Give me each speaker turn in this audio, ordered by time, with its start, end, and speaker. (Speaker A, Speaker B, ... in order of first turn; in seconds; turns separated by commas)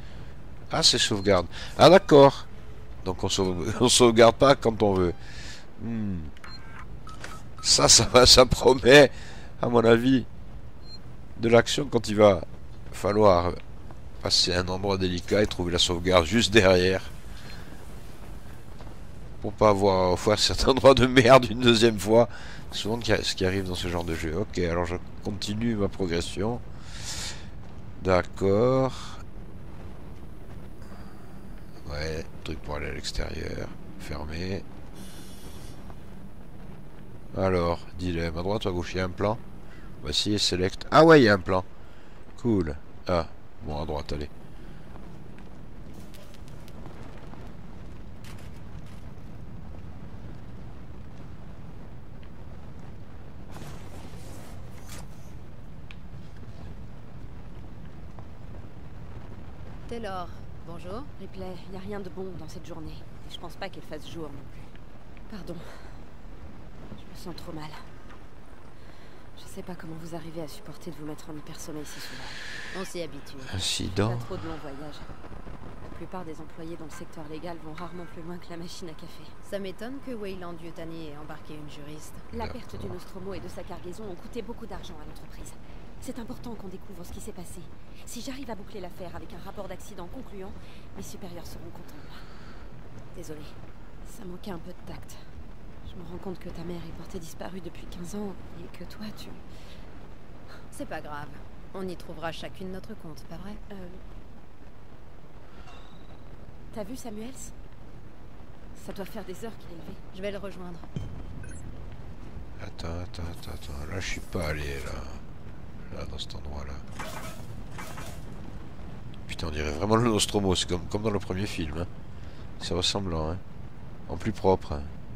Speaker A: 0.7-2.5, Speaker A: 3.0-5.2, Speaker A: 5.8-6.3, Speaker A: 7.6-10.3, Speaker A: 11.4-13.6, Speaker A: 14.2-17.1, Speaker A: 19.4-27.3, Speaker A: 28.0-29.2, Speaker A: 31.8-34.6, Speaker A: 37.3-39.4, Speaker A: 40.0-41.7, Speaker A: 42.4-44.3, Speaker B: 59.9-61.1, Speaker C: 61.2-64.7, Speaker C: 65.3-65.9, Speaker C: 67.0-67.8, Speaker C: 69.4-72.4, Speaker B: 72.7-73.6, Speaker A: 73.5-74.3, Speaker C: 73.9-75.1, Speaker C: 75.8-79.3, Speaker B: 79.4-82.3, Speaker C: 82.3-92.2, Speaker A: 82.3-82.9, Speaker B: 93.2-93.5, Speaker C: 94.0-95.2, Speaker C: 95.9-99.4, Speaker B: 100.7-103.6, Speaker C: 103.7-104.0, Speaker C: 106.7-107.5, Speaker C: 108.8-110.0, Speaker B: 110.1-110.8, Speaker A: 112.6-115.2, Speaker A: 115.9-116.8, Speaker A: 119.3-121.9, Speaker A: 122.6-123.4, Speaker A: 124.1-124.9